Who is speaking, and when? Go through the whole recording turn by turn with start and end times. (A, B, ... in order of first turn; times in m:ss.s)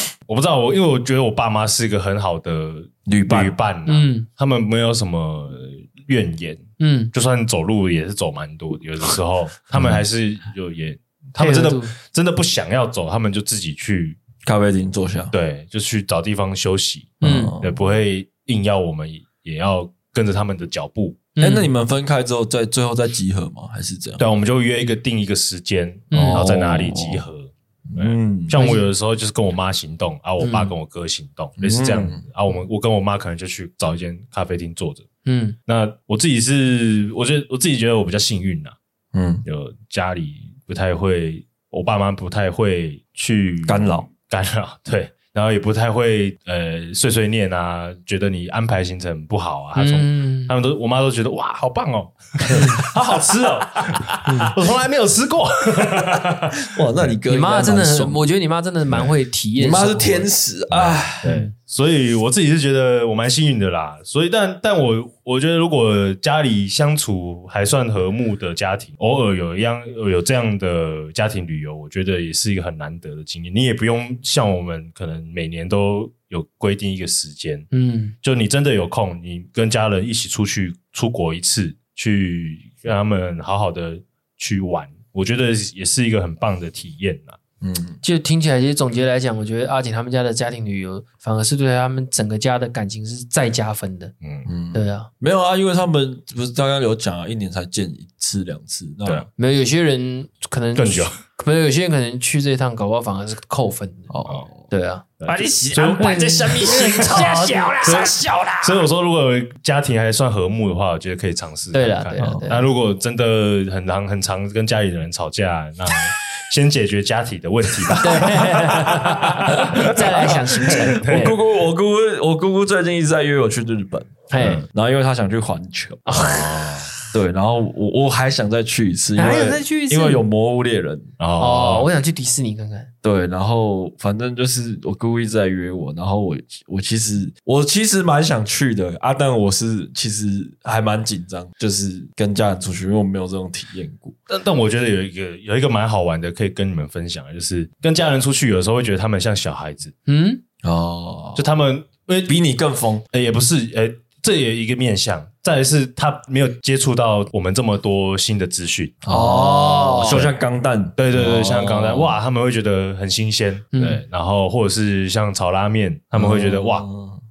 0:00.3-0:14.2 A
0:03.1-0:03.5 B
0:03.9-0:04.3 C
0:06.8-0:07.1 C
0:09.7-0:10.0 B
0:11.4-0:11.9 C
0:14.4-0:15.3 B
0:15.3-0:21.2 A
0:17.2-0:17.6 C
0:17.2-0:17.8 B
0:21.4-0:21.7 C
0:21.4-0:24.2 B
0:24.2-0:35.1 A
0:26.1-0:26.4 C
0:26.1-0:27.2 B
0:27.9-0:28.6 B
0:28.6-0:28.8 C
0:30.4-0:30.7 C
0:31.6-0:32.2 B
0:35.2-0:35.6 C
0:35.7-0:38.7 A
0:39.1-0:39.4 B
0:39.4-0:57.1 A
0:43.6-0:44.1 B
0:49.8-0:50.5 C
0:52.5-0:53.3 C
0:54.2-0:54.6 C
0:56.6-0:58.3 B
0:57.3-1:00.3 C
0:59.6-1:01.3 B
1:00.7-1:17.7 A
1:01.2-1:01.5 C
1:17.7-1:18.1 C
1:18.2-1:27.4 A
1:27.6-1:28.0 B
1:28.0-1:34.1 C
1:34.2-1:34.5 A
1:34.4-1:39.3 B
1:34.7-1:35.1 C
1:39.4-1:44.1 C
1:40.8-1:41.2 A
1:44.1-1:44.7 B
1:44.7-1:48.6 C
1:45.2-2:01.3 A
1:45.3-1:48.4 B
1:51.7-1:52.7 C
1:52.2-1:52.5 B
1:58.0-2:01.4 C
1:59.5-2:06.2 B
2:04.3-2:04.6 C
2:04.4-2:04.6 A
2:06.0-2:06.7 C
2:06.1-2:06.9 A
2:07.1-2:11.1 B
2:09.2-2:10.2 C
2:11.2-2:11.9 A
2:11.4-2:12.9 C
2:13.0-2:24.1 B
2:24.3-2:29.9 A
2:30.0-2:30.4 C
2:30.6-2:31.4 B
2:31.4-2:32.4 A
2:32.3-2:33.1 B
2:33.1-2:39.0 A
2:39.0-2:42.2 B
2:39.1-2:40.2 C
2:40.1-2:40.3 A
2:41.0-2:46.8 A
2:43.7-2:44.0 C
2:46.2-2:47.2 B